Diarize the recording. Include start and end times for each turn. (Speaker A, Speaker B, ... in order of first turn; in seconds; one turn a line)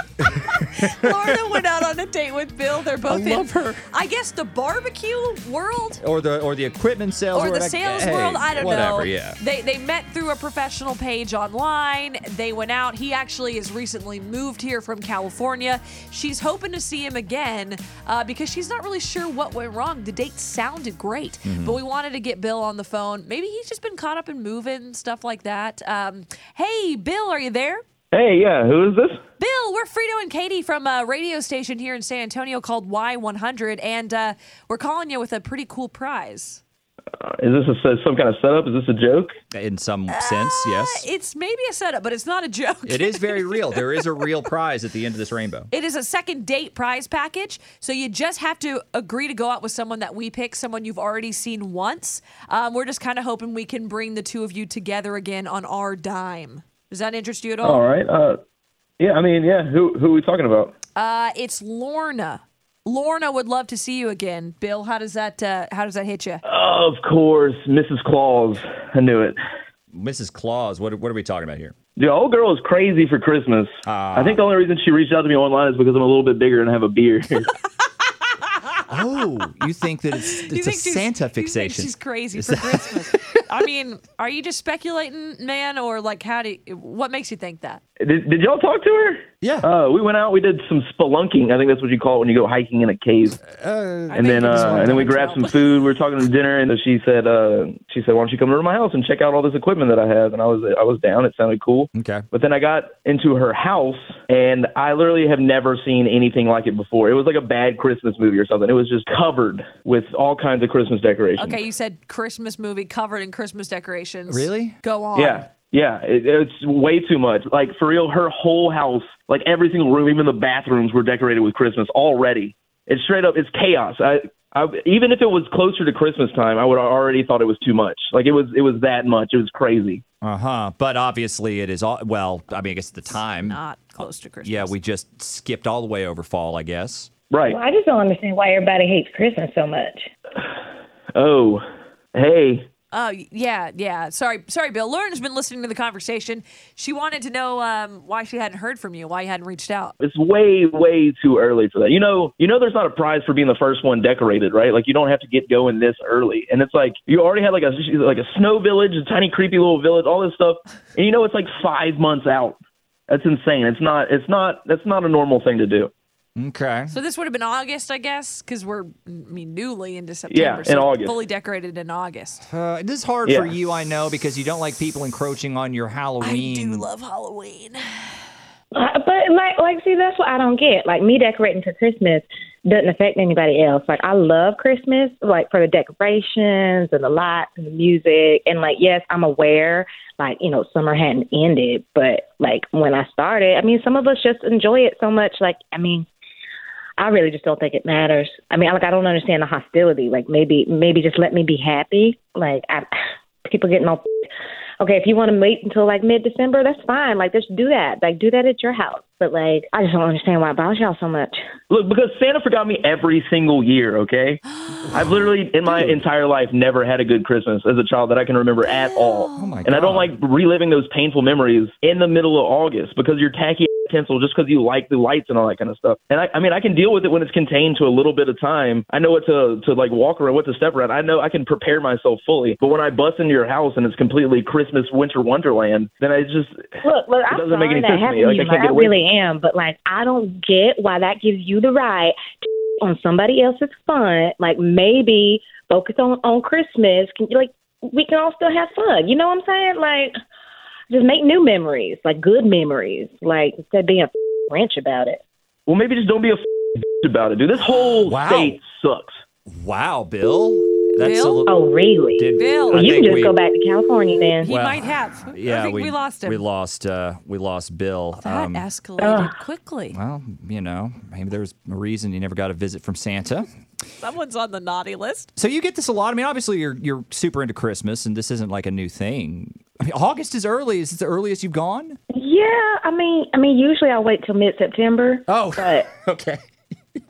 Speaker A: 0.5-1.6
Speaker B: 0.6-6.0
Speaker A: 3.0-3.8
Speaker A: 6.0-9.4
Speaker B: 7.3-27.8
Speaker A: 21.4-21.8
Speaker C: 28.1-29.2
Speaker B: 29.4-36.6
Speaker C: 37.2-39.3
Speaker A: 39.5-41.1
Speaker B: 40.1-44.3
Speaker A: 42.9-45.7
Speaker B: 45.7-57.9
Speaker C: 57.6-58.4
Speaker C: 59.0-60.7
Speaker B: 61.0-66.4
Speaker C: 66.5-69.4
Speaker A: 69.9-71.8
Speaker C: 72.0-77.5
Speaker A: 73.9-74.4
Speaker A: 78.9-83.4
Speaker B: 80.3-87.8
Speaker C: 88.0-93.4
Speaker A: 89.4-89.7
Speaker A: 93.4-95.1
Speaker B: 94.1-95.6
Speaker C: 94.2-111.6
Speaker A: 102.0-102.2
Speaker B: 111.4-115.5
Speaker A: 114.3-114.8
Speaker C: 115.2-130.0
Speaker A: 130.2-137.1
Speaker B: 133.0-134.8
Speaker C: 137.3-137.6
Speaker D: 137.5-140.1
Speaker C: 141.2-141.6
Speaker C: 142.1-142.7
Speaker B: 142.9-150.0
Speaker C: 150.0-162.6
Speaker C: 163.1-165.9
Speaker A: 166.4-166.9
Speaker B: 166.9-172.5
Speaker C: 170.3-171.2
Speaker A: 172.5-176.9
Speaker C: 173.3-173.5
Speaker B: 176.2-178.1
Speaker D: 178.7-196.1
Speaker D: 197.0-202.9
Speaker D: 203.4-204.0
Speaker D: 204.8-211.4
Speaker C: 211.7-236.8
Speaker B: 214.5-214.9
Speaker B: 218.7-219.6
Speaker A: 219.4-220.1
Speaker D: 236.8-250.1
Speaker C: 237.3-238.9
Speaker D: 250.9-255.2
Speaker C: 255.7-259.2
Speaker A: 258.0-258.6
Speaker A: 259.5-263.4
Speaker B: 261.0-261.4
Speaker D: 261.5-264.5
Speaker B: 262.4-262.9
Speaker B: 264.4-266.4
Speaker A: 264.5-268.7
Speaker B: 268.2-270.0
Speaker D: 269.0-269.3
Speaker A: 269.9-273.5
Speaker B: 274.0-275.3
Speaker A: 275.4-282.0
Speaker D: 282.1-285.9
Speaker A: 285.3-286.4